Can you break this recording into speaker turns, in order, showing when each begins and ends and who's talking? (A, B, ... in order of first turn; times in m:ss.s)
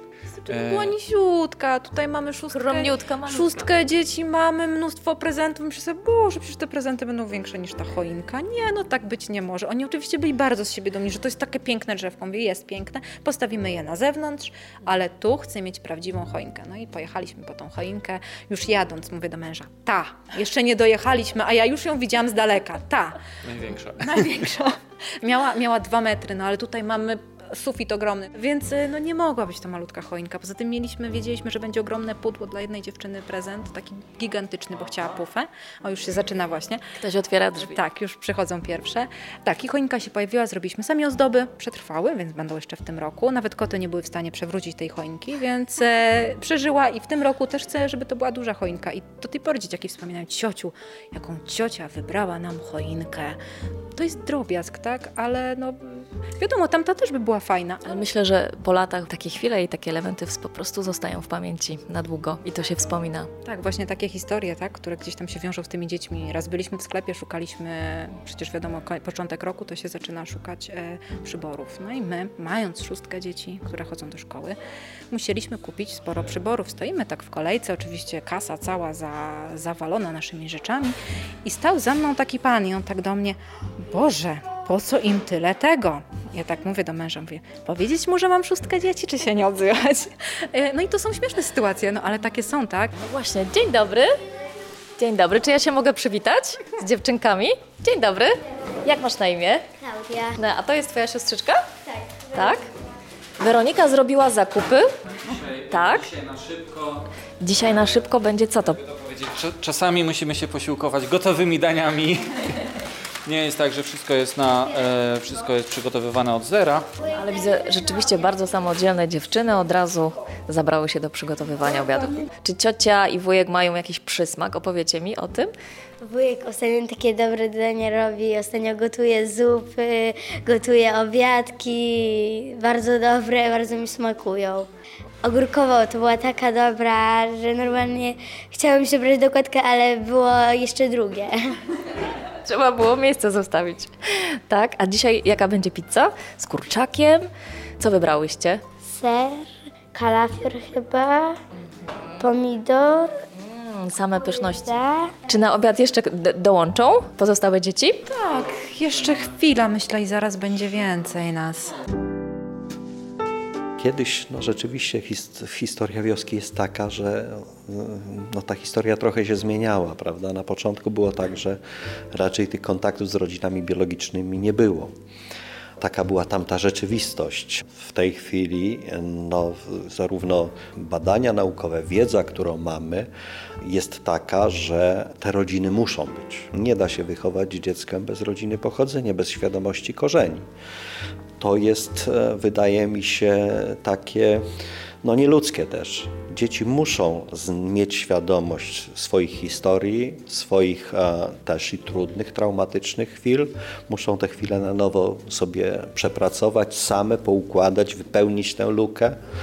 0:00.4-0:23.2 A
0:00.5-0:01.0 B
0:02.5-0:03.7 C
0:23.4-0:24.4 B
0:24.0-0:36.8 A
0:37.0-0:37.8 C
0:37.6-0:53.4 A
0:54.0-0:58.0 A
0:57.8-1:03.3 C
1:03.4-1:14.6 A
1:15.1-1:32.9 A
1:33.0-1:34.2 C
1:35.0-1:39.6 C
1:39.8-1:40.4 D
1:40.3-1:41.7 C
1:41.9-1:42.6 D
1:42.3-1:42.6 C
1:43.4-1:44.9 C
1:45.1-1:47.0 B
1:45.7-1:46.1 C
1:47.4-1:48.8 C
1:48.8-1:52.6 B
1:53.2-1:56.9 B
1:57.1-2:05.5 C
2:06.0-2:14.7 D
2:15.2-2:21.5 D
2:22.3-2:27.3 C
2:27.8-2:28.6 C
2:28.8-2:31.4 D
2:32.2-2:33.2 D
2:33.4-2:38.0 C
2:34.2-2:35.1 D
2:38.1-2:41.8 A
2:43.8-2:51.6 E
2:52.1-2:54.9 E
2:55.8-3:03.1 E
3:03.6-3:10.5 E
3:11.4-3:14.4 E
3:15.0-3:29.2 E